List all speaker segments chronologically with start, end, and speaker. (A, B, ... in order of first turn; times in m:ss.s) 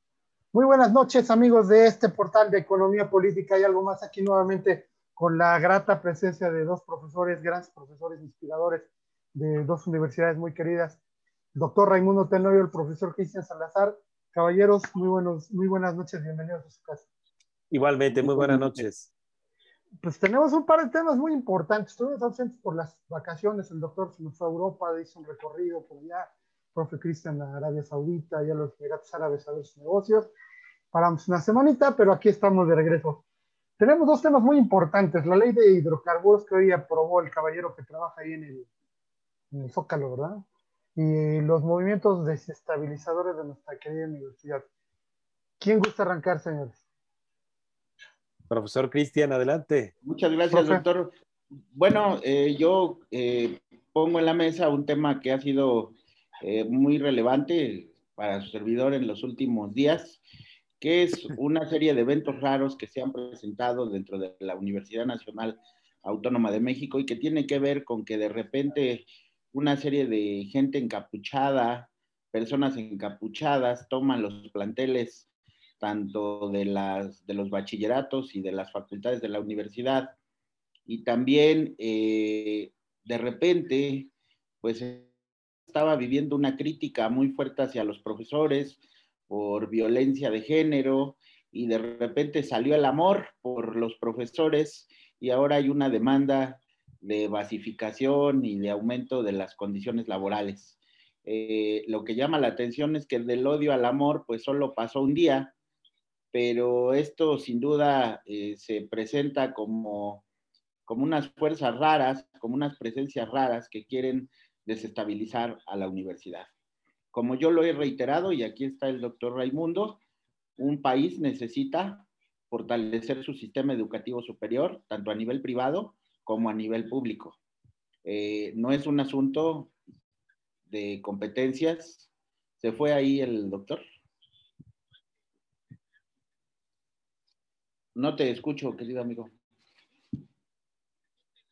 0:00.5-0:11.0 A
0:11.5-0:17.1 A
0:17.7-0:19.1 B
0:18.1-0:18.8 A
0:20.0-0:30.3 A
0:30.9-0:33.2 A
0:33.8-0:38.7 A
0:39.5-0:40.4 A
0:41.0-0:44.6 A
0:45.6-0:46.8 A
0:48.5-0:49.9 B
0:50.0-0:51.1 C
0:50.5-0:50.8 A
0:51.7-1:00.2 C
1:00.8-1:15.3 C
1:15.8-1:20.2 C
1:20.9-1:24.1 C
1:24.6-1:25.1 C
1:25.7-1:45.5 C
1:46.3-1:50.2 C
1:50.9-1:56.5 C
1:57.1-2:00.0 C
2:00.6-2:07.4 C
2:08.0-2:09.7 C
2:10.7-2:12.1 C
2:12.6-2:13.8 C
2:17.9-2:19.3 C